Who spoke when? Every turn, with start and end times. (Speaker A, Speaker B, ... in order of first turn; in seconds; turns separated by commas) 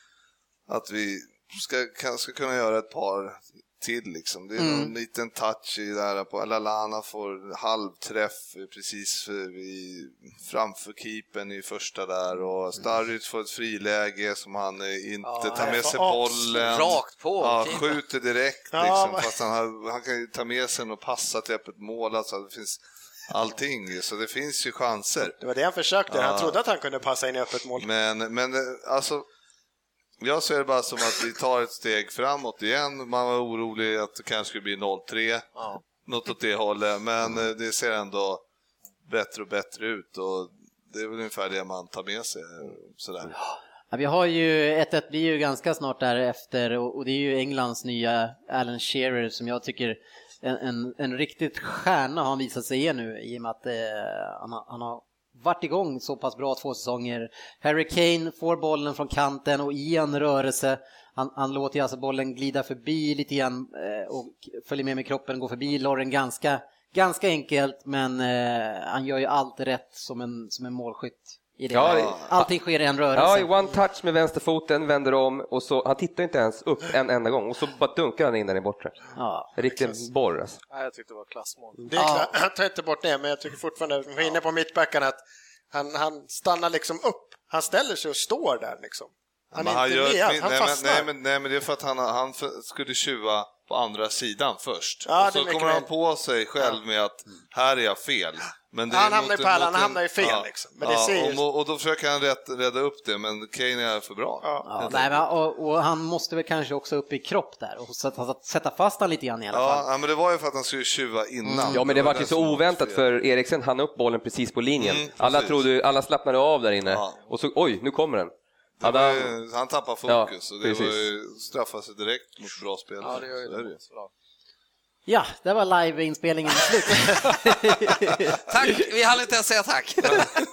Speaker A: 0.7-25.4, Speaker B: 4.6-4.9, Speaker C: 15.2-15.9, Speaker D: 15.5-16.7, Speaker C: 16.5-18.0, Speaker D: 18.7-19.3, Speaker D: 25.4-27.9, Speaker A: 26.1-26.6, Speaker A: 27.8-29.2, Speaker A: 30.2-35.5, Speaker A: 36.0-38.4, Speaker A: 39.1-43.3, Speaker B: 43.9-73.5, Speaker E: 71.7-72.5, Speaker A: 71.8-72.2, Speaker E: 73.2-79.0, Speaker B: 79.2-79.5, Speaker E: 79.5-80.6, Speaker C: 80.7-81.8, Speaker D: 81.9-85.2, Speaker B: 81.9-82.3, Speaker D: 85.7-91.1, Speaker A: 89.5-105.2, Speaker D: 95.0-95.9, Speaker D: 98.9-101.4, Speaker D: 104.4-104.7, Speaker B: 104.6-109.8, Speaker A: 109.5-113.0, Speaker B: 111.4-111.8, Speaker E: 111.7-119.3, Speaker A: 114.8-115.6, Speaker A: 116.8-117.2, Speaker A: 118.8-123.8, Speaker E: 120.1-121.0, Speaker C: 123.0-124.1, Speaker B: 125.1-128.5, Speaker C: 128.5-130.4